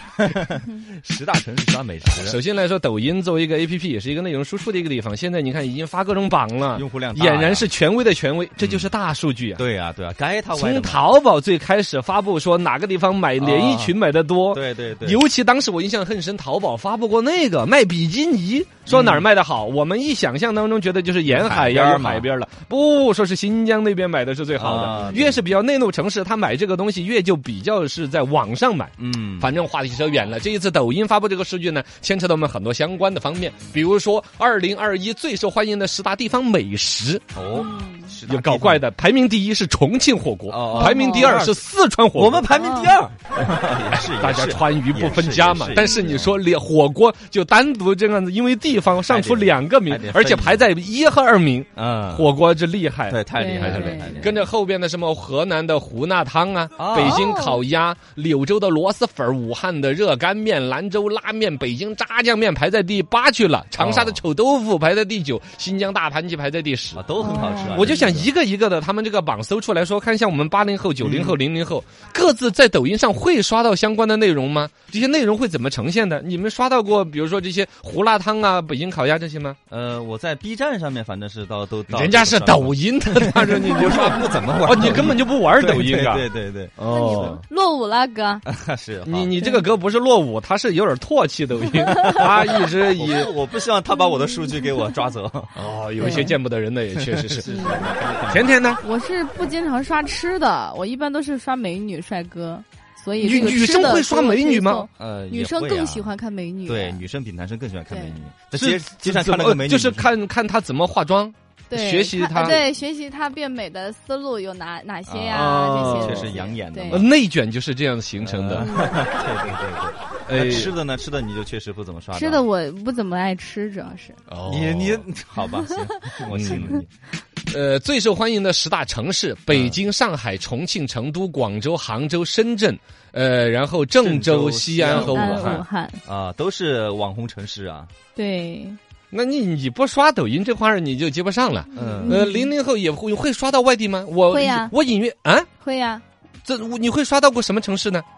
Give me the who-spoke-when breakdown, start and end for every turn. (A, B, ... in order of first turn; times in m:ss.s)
0:00.2-0:02.4 A
0:02.2-0:09.6 B
0:06.7-0:07.7 A
0:08.6-0:08.9 A
0:09.6-0:11.0 A
0:10.5-0:37.2 B
0:13.4-0:14.0 A
0:14.5-0:15.2 A
0:18.9-0:19.3 A
0:21.3-0:22.3 A
0:24.6-0:25.4 A
0:29.0-0:29.5 A
0:37.3-0:38.8 A
0:37.5-0:38.1 C
0:38.3-0:42.5 B
0:40.5-0:41.6 A
0:40.8-0:41.4 C
0:42.2-0:46.4 A
0:42.5-0:43.0 C
0:44.2-1:07.1 B
0:45.8-0:46.2 C
0:49.1-0:50.7 A
0:51.8-0:52.3 A
0:53.1-0:54.5 A
0:53.4-0:54.3 C
0:56.8-0:57.3 A
0:57.0-0:57.6 C
1:03.8-1:04.2 A
1:07.0-1:08.3 A
1:07.2-1:07.9 C
1:07.7-1:19.6 B
1:11.0-1:11.4 A
1:19.7-1:27.4 A
1:21.9-1:27.4 B
1:26.9-1:28.4 C
1:28.5-1:29.4 A
1:29.0-1:33.3 B
1:32.0-1:36.3 A
1:35.6-1:37.5 B
1:36.0-1:36.3 C
1:36.9-1:38.7 A
1:37.5-1:37.9 C
1:38.3-1:38.8 B
1:38.8-1:47.0 C
1:43.2-1:44.9 B
1:45.0-1:46.1 A
1:46.7-1:50.1 A
1:47.9-1:48.2 C
1:48.5-1:52.6 B
1:51.7-1:57.0 C
1:55.1-1:57.1 A
1:55.3-1:56.3 B
1:56.9-1:58.7 B
1:58.2-2:02.4 A
1:58.6-1:59.0 C
2:00.3-2:00.7 B
2:02.1-2:04.2 C
2:04.3-2:05.1 B
2:04.5-2:06.9 A
2:06.3-2:06.8 B
2:07.5-2:15.6 B
2:09.5-2:09.8 A
2:14.0-2:17.9 A
2:14.9-2:16.0 C
2:18.2-2:18.8 C
2:19.1-2:25.5 B
2:21.7-2:22.5 C
2:21.7-2:22.3 A
2:24.3-2:24.7 C
2:25.6-2:26.0 C
2:26.4-2:28.0 B